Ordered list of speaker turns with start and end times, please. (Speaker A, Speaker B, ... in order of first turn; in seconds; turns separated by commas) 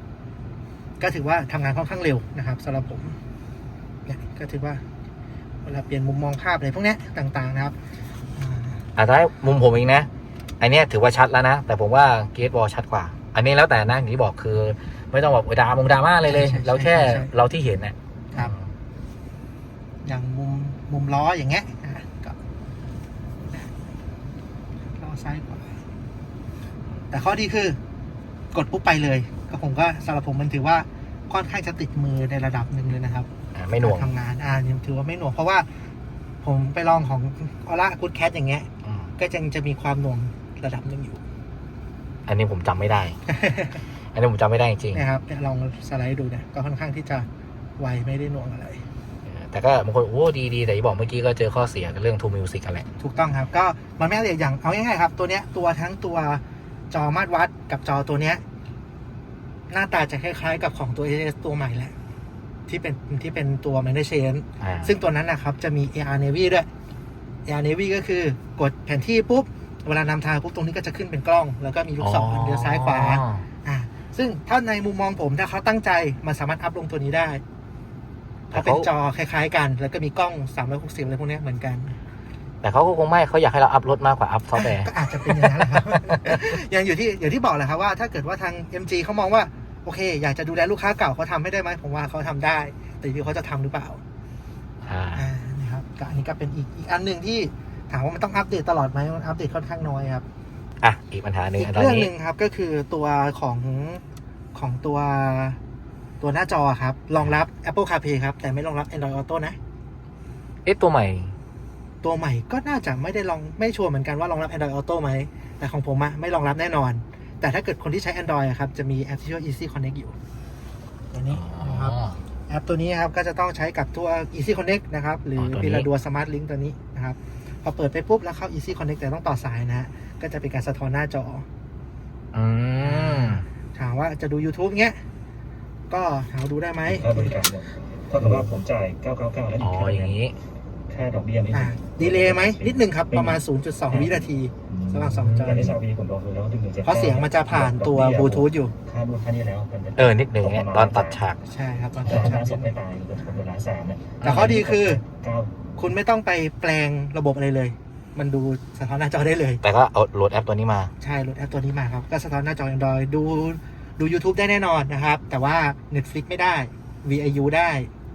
Speaker A: 1.0-3.2, Speaker A: 4.1-4.8, Speaker A: 5.6-7.7, Speaker A: 8.3-8.8, Speaker B: 8.9-10.1, Speaker B: 10.6-18.7, Speaker A: 16.2-17.3, Speaker A: 20.0-22.4, Speaker A: 24.9-25.8, Speaker A: 27.1-27.8, Speaker A: 28.5-35.7, Speaker B: 33.5-34.1, Speaker A: 36.4-41.2, Speaker B: 38.8-39.1, Speaker B: 42.3-43.2, Speaker A: 43.3-43.8, Speaker B: 44.1-45.0, Speaker A: 44.9-47.3, Speaker A: 47.8-48.8, Speaker B: 49.3-52.9, Speaker A: 53.0-58.4, Speaker A: 59.7-61.9, Speaker A: 62.7-66.7, Speaker B: 64.6-65.0, Speaker A: 67.5-77.4, Speaker B: 72.0-73.5, Speaker B: 78.5-78.9, Speaker A: 78.5-82.0, Speaker B: 82.6-86.4, Speaker A: 84.5-94.0, Speaker B: 94.8-95.3, Speaker A: 95.2-100.2, Speaker B: 100.8-102.1, Speaker A: 101.6-104.0, Speaker A: 104.5-105.6, Speaker A: 106.2-109.6, Speaker B: 110.6-111.3, Speaker A: 112.0-120.1, Speaker A: 121.1-122.0, Speaker B: 121.3-122.2, Speaker A: 122.5-131.4, Speaker B: 125.3-125.8, Speaker B: 132.3-133.4, Speaker A: 132.8-135.0, Speaker A: 135.9-137.5, Speaker C: 136.8-140.1, Speaker B: 139.6-140.3, Speaker C: 140.9-143.4, Speaker A: 141.5-145.8, Speaker C: 143.9-144.2, Speaker B: 144.7-145.5, Speaker C: 145.3-151.2, Speaker A: 146.8-148.7, Speaker B: 149.9-151.4, Speaker A: 151.4-152.8, Speaker C: 152.0-155.6, Speaker B: 154.2-154.7, Speaker A: 154.2-155.0, Speaker A: 155.8-159.6, Speaker B: 159.6-160.9, Speaker A: 161.0-167.9